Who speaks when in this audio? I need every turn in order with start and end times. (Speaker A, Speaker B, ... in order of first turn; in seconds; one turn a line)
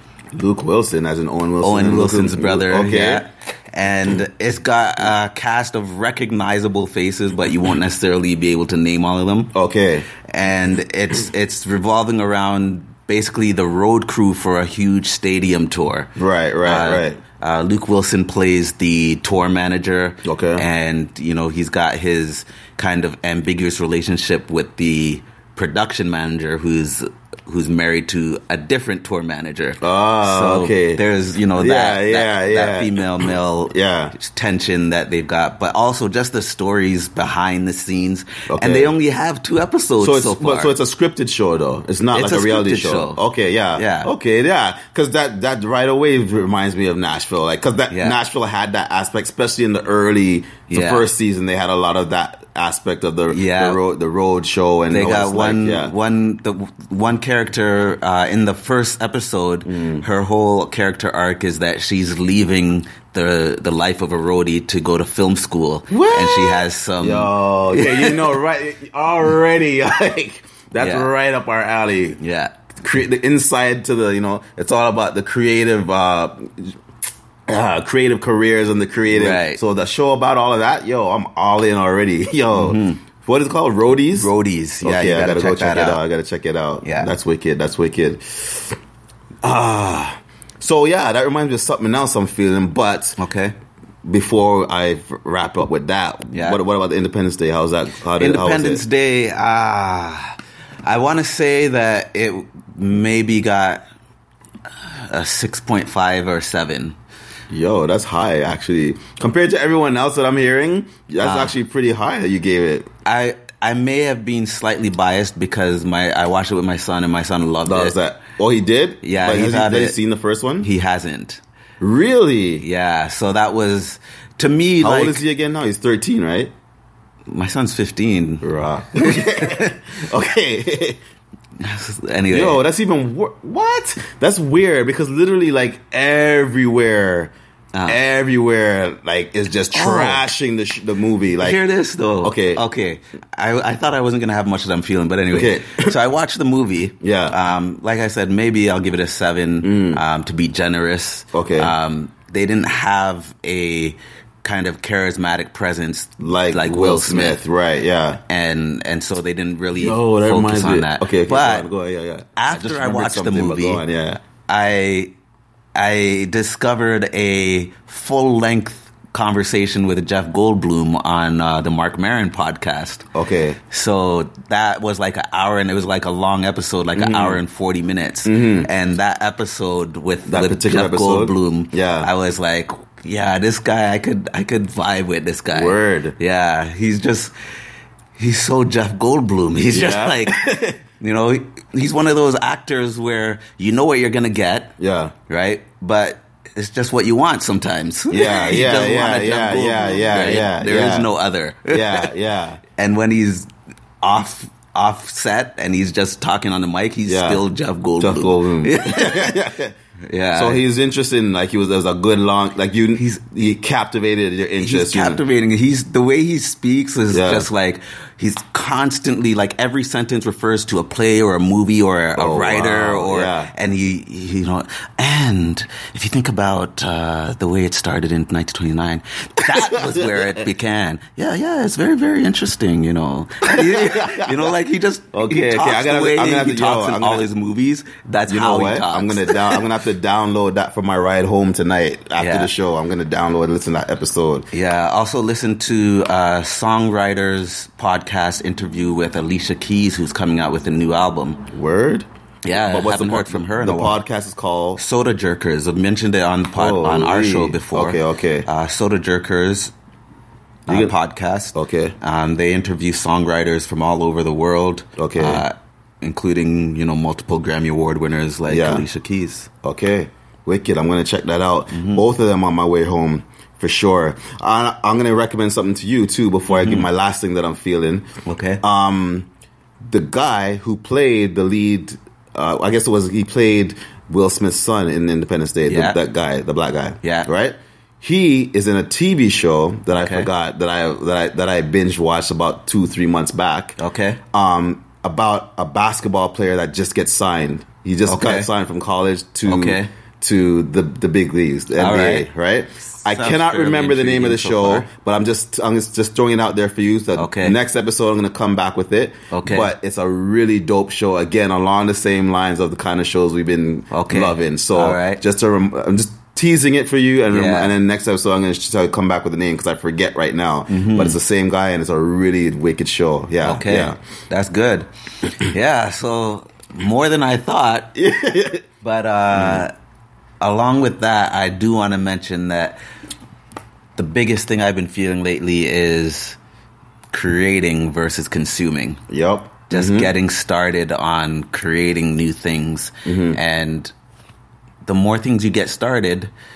Speaker A: 0.3-3.2
Speaker B: 1.6-9.5
Speaker A: 9.5-10.1
Speaker B: 10.2-16.1
Speaker A: 16.2-17.2
Speaker B: 16.6-40.7
Speaker A: 20.2-20.6
Speaker A: 29.8-31.0
Speaker A: 31.6-34.1
Speaker A: 38.5-38.9
Speaker A: 40.0-55.9
Speaker B: 42.1-43.2
Speaker B: 43.7-44.1
Speaker B: 47.9-48.2
Speaker B: 50.7-51.1
Speaker B: 53.3-53.8
Speaker B: 54.9-68.3
Speaker A: 59.6-60.0
Speaker A: 65.9-72.2
Speaker B: 70.8-71.1
Speaker B: 72.2-72.5
Speaker A: 72.8-76.8
Speaker A: 77.5-84.3
Speaker B: 79.1-79.6
Speaker B: 82.5-83.0
Speaker B: 84.2-86.0
Speaker A: 84.8-88.8
Speaker B: 86.8-87.1
Speaker A: 89.4-93.2
Speaker B: 93.2-93.5
Speaker A: 94.0-98.8
Speaker B: 96.3-96.6
Speaker B: 98.2-103.8
Speaker B: 104.9-107.0
Speaker A: 107.5-112.9
Speaker B: 111.2-111.5
Speaker B: 113.0-118.0
Speaker A: 117.6-120.7
Speaker B: 119.0-120.0
Speaker B: 120.6-121.4
Speaker A: 121.8-122.6
Speaker B: 122.6-125.2
Speaker A: 124.8-126.5
Speaker B: 127.3-129.7
Speaker A: 128.4-131.0
Speaker B: 131.6-132.6
Speaker A: 132.3-137.3
Speaker B: 137.7-138.0
Speaker A: 137.9-141.6
Speaker B: 139.7-140.2
Speaker B: 141.4-157.4
Speaker A: 142.2-142.6
Speaker A: 145.3-145.9
Speaker A: 147.0-147.3
Speaker A: 149.6-150.0
Speaker A: 151.3-151.7
Speaker A: 156.2-158.2
Speaker B: 158.3-161.7
Speaker A: 159.8-164.2
Speaker B: 162.3-163.8
Speaker B: 164.4-165.1
Speaker B: 165.7-173.1
Speaker A: 173.1-173.6
Speaker B: 173.7-187.3
Speaker A: 176.9-177.4
Speaker A: 178.2-178.7
Speaker A: 180.3-182.1
Speaker A: 185.5-186.1
Speaker B: 188.2-202.1
Speaker A: 189.7-190.8
Speaker A: 194.8-195.1
Speaker A: 198.1-201.1
Speaker A: 201.7-202.6
Speaker B: 202.8-203.5
Speaker B: 204.0-209.4
Speaker A: 207.1-207.4
Speaker A: 208.0-209.7
Speaker B: 210.1-210.6
Speaker A: 210.3-215.2
Speaker B: 212.9-213.3
Speaker B: 214.6-239.6
Speaker A: 217.1-217.5
Speaker A: 222.2-223.5
Speaker A: 229.5-230.2
Speaker A: 233.5-234.5
Speaker A: 235.1-237.2
Speaker A: 238.3-244.4
Speaker B: 242.2-242.5
Speaker B: 244.5-251.5
Speaker A: 251.5-254.8
Speaker B: 252.4-254.0
Speaker B: 254.8-259.7
Speaker A: 256.6-258.5
Speaker B: 260.6-269.5
Speaker A: 260.7-260.9
Speaker A: 261.5-261.9
Speaker A: 265.0-265.4
Speaker A: 268.5-268.8
Speaker A: 269.6-278.1
Speaker B: 271.7-272.0
Speaker B: 276.5-276.9
Speaker B: 278.2-278.6
Speaker A: 278.6-279.3
Speaker A: 279.8-293.8
Speaker B: 285.7-286.0
Speaker B: 287.0-287.3
Speaker B: 289.9-290.3
Speaker B: 293.8-294.2
Speaker A: 294.3-324.0
Speaker B: 298.1-298.5
Speaker B: 299.4-299.9
Speaker B: 301.8-302.3
Speaker B: 302.9-304.9
Speaker B: 307.1-307.6
Speaker B: 309.3-309.7
Speaker B: 313.9-315.2
Speaker B: 317.3-317.7
Speaker B: 320.7-321.2
Speaker B: 323.4-327.9
Speaker A: 327.9-328.6
Speaker B: 328.8-329.7
Speaker A: 329.3-329.6
Speaker B: 330.4-332.8
Speaker B: 334.0-336.4
Speaker B: 337.1-339.0
Speaker A: 339.1-340.1
Speaker B: 339.7-343.9
Speaker A: 343.1-343.4
Speaker B: 344.8-346.3